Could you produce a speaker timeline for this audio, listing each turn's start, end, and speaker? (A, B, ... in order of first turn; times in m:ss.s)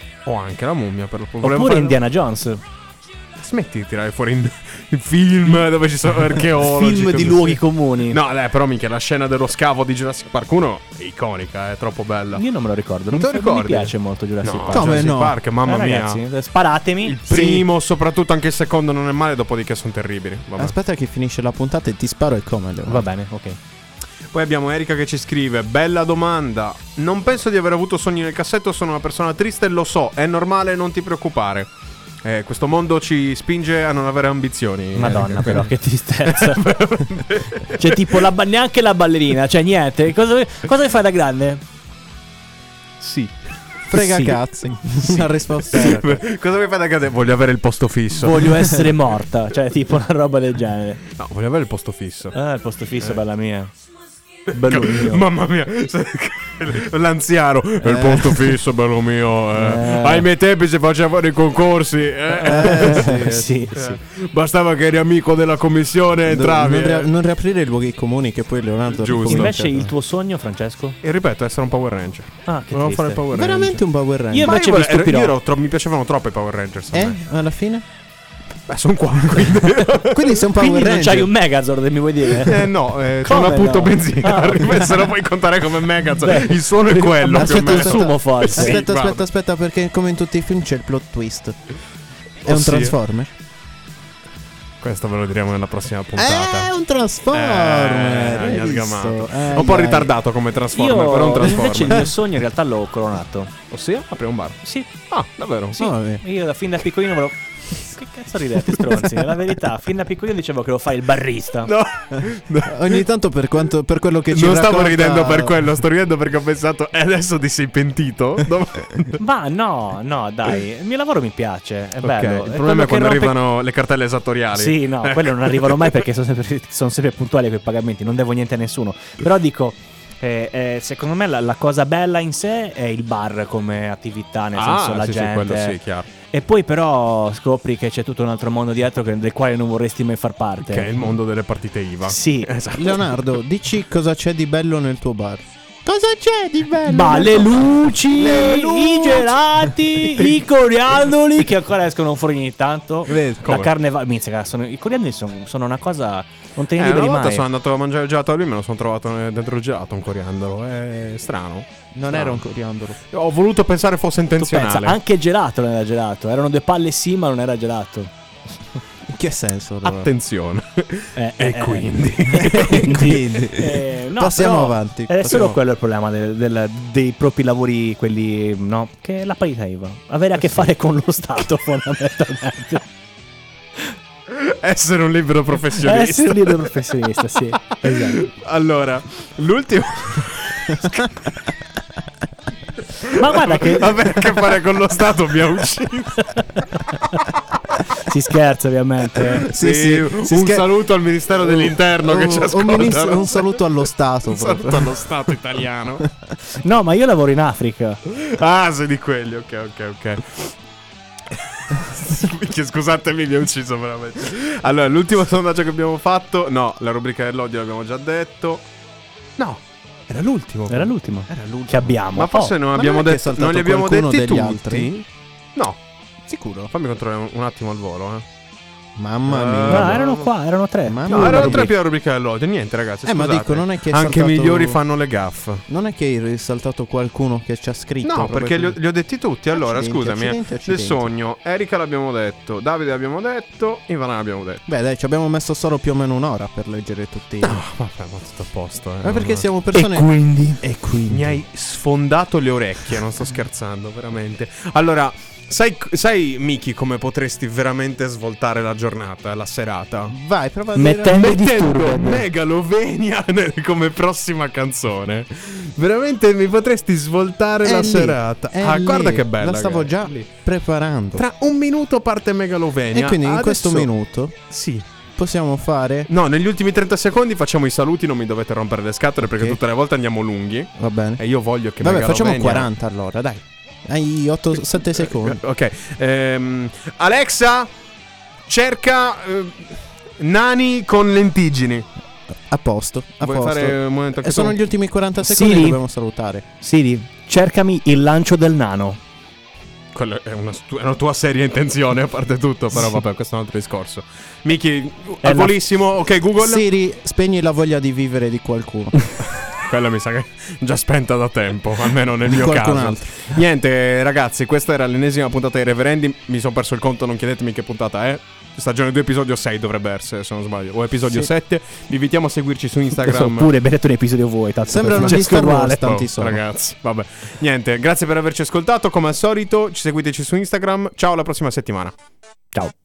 0:00.2-0:02.0 A
0:01.4-0:02.6 B
0:03.4-0:12.4 A
0:06.5-0:08.2 B
0:12.3-0:17.2 B
0:13.1-0:16.2 A
0:14.7-0:15.4 C
0:17.0-0:20.7 A
0:17.3-0:17.7 C
0:20.6-0:23.0 C
0:22.9-0:23.6 B
0:24.3-0:31.7 A
0:32.2-0:38.2 A
0:34.9-0:36.8 B
0:37.6-0:41.6 B
0:43.0-0:43.3 A
0:43.9-0:46.2 C
0:43.9-0:45.2 B
0:45.7-0:48.8 A
0:48.1-0:51.0 B
0:51.2-0:52.4 A
0:52.3-0:53.7 B
0:54.5-1:07.1 A
0:54.5-0:55.2 B
0:57.8-0:58.6 C
0:59.6-1:00.3 B
1:02.4-1:03.5 C
1:02.4-1:04.0 B
1:06.2-1:09.9 C
1:08.9-1:09.5 A
1:09.2-1:11.0 B
1:11.0-1:13.8 A
1:12.5-1:13.2 B
1:13.3-1:14.5 C
1:14.3-1:15.3 B
1:14.4-1:17.2 A
1:16.9-1:17.8 C
1:18.7-1:20.4 A
1:19.9-1:21.3 C
1:20.5-1:22.7 B
1:22.3-1:29.2 A
1:23.2-1:25.1 B
1:26.2-1:28.8 B
1:27.3-1:31.6 C
1:32.4-1:33.0 A
1:32.4-1:33.3 C
1:34.8-1:36.7 A
1:36.2-1:40.1 C
1:37.3-1:42.2 A
1:40.7-1:43.5 B
1:43.7-1:45.8 A
1:44.6-1:44.9 B
1:45.7-1:51.7 B
1:45.7-1:46.2 C
1:51.6-1:53.1 A
1:52.1-1:55.6 C
1:54.3-1:59.2 A
1:59.2-2:03.3 B
2:02.0-2:06.0 A
2:04.5-2:15.8 B
2:14.5-2:16.1 A
2:16.3-2:20.9 B
2:20.6-2:23.3 A
2:22.0-2:22.5 B
2:22.7-2:29.3 C
2:26.9-2:37.5 B
2:33.1-2:33.7 A
2:36.8-2:42.4 A
2:41.9-2:43.0 C
2:43.1-2:45.0 A
2:44.4-2:48.1 B
2:49.1-2:50.1 C
2:49.8-2:53.2 A
2:51.2-3:02.8 B
2:52.3-2:55.6 C
3:04.3-3:06.7 A
3:05.8-3:08.2 B
3:07.7-3:11.3 A
3:12.9-3:16.4 A
3:13.1-3:13.9 B
3:16.2-3:17.2 B
3:17.9-3:19.5 B
3:19.4-3:20.7 C
3:19.4-3:23.7 A
3:21.4-3:25.0 C
3:24.2-3:26.1 A
3:26.5-3:28.0 B
3:28.1-3:30.5 A
3:31.3-3:38.6 A
3:39.4-3:40.9 A
3:40.7-3:42.5 B
3:41.3-3:41.9 C
3:42.1-3:45.8 A
3:42.7-3:44.9 C
3:46.2-3:46.7 C
3:46.7-3:48.2 A
3:49.0-3:50.0 C
3:49.3-3:50.3 A
3:49.7-3:51.7 B
3:50.8-3:51.7 C
3:51.1-3:55.6 A
3:53.0-3:54.8 C
3:55.7-3:58.8 C
3:58.0-4:04.6 A
3:59.5-4:01.1 C
4:04.7-4:07.6 C
4:07.4-4:09.5 A
4:09.0-4:11.4 C
4:09.7-4:10.6 B
4:11.1-4:20.2 A
4:20.1-4:21.3 C
4:20.8-4:22.2 B
4:21.1-4:30.3 A
4:27.6-4:31.2 C
4:31.2-4:33.9 A
4:32.9-4:34.4 C
4:34.5-4:34.8 A
4:35.2-4:36.1 C
4:36.1-4:42.7 A
4:39.2-4:39.6 C
4:40.8-4:41.2 C
4:41.8-4:45.4 C
4:44.8-4:47.7 A
4:48.5-4:51.9 A
4:52.5-4:56.4 C
4:53.2-4:54.6 A
4:55.2-4:55.8 B
4:56.6-4:59.0 B
4:59.9-5:06.6 A
5:05.2-5:05.6 B
5:06.4-5:09.0 C
5:09.2-5:23.5 A
5:12.3-5:13.2 C
5:23.0-5:26.3 B
5:24.7-5:26.4 C
5:24.9-5:31.9 A